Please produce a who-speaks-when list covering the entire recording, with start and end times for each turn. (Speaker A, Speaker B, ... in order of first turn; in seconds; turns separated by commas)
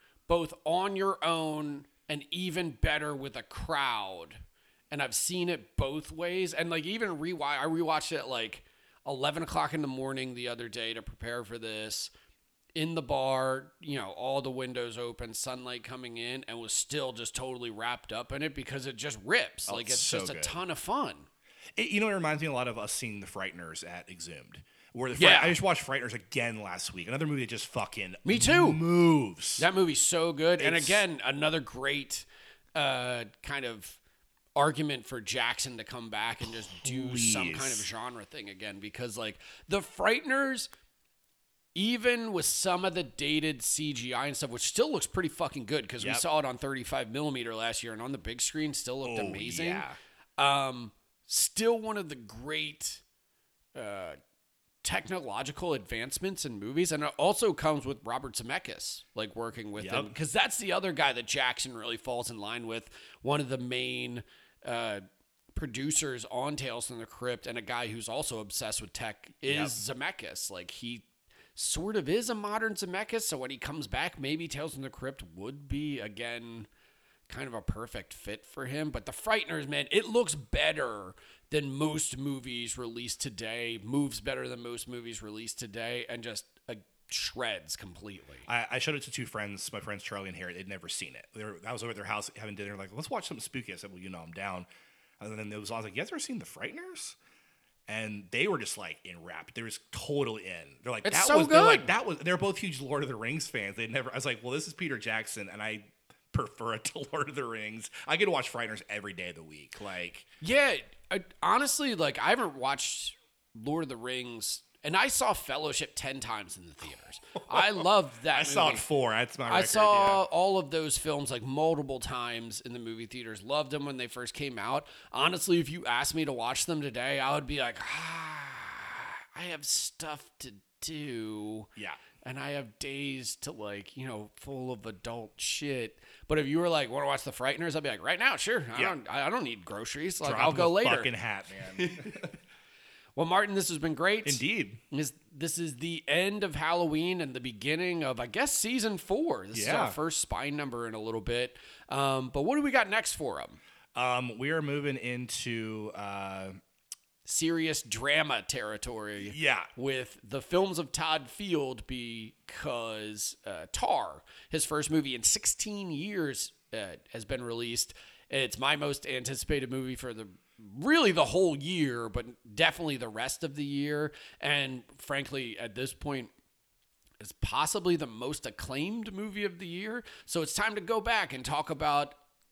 Speaker A: 0.3-12.1, Speaker A: 12.8-21.3, Speaker B: 19.7-20.6, Speaker B: 21.8-29.7, Speaker A: 25.2-25.6, Speaker A: 28.2-28.8, Speaker A: 29.6-34.0, Speaker B: 30.6-31.0, Speaker A: 34.6-40.7, Speaker B: 36.8-37.9, Speaker A: 41.8-53.0, Speaker B: 49.0-50.0, Speaker A: 53.8-54.2, Speaker A: 54.8-76.7, Speaker B: 59.8-60.1, Speaker B: 69.5-69.7, Speaker A: 77.3-88.5, Speaker B: 88.5-94.7, Speaker B: 95.2-97.2, Speaker B: 97.9-110.3, Speaker A: 101.0-101.9, Speaker A: 110.4-118.8, Speaker B: 117.5-120.2, Speaker A: 119.5-142.3, Speaker B: 140.2-142.3, Speaker A: 143.2-153.6, Speaker B: 144.2-144.8, Speaker B: 149.5-150.0, Speaker B: 153.9-156.6, Speaker A: 157.2-176.3, Speaker B: 159.2-159.7, Speaker A: 177.2-182.2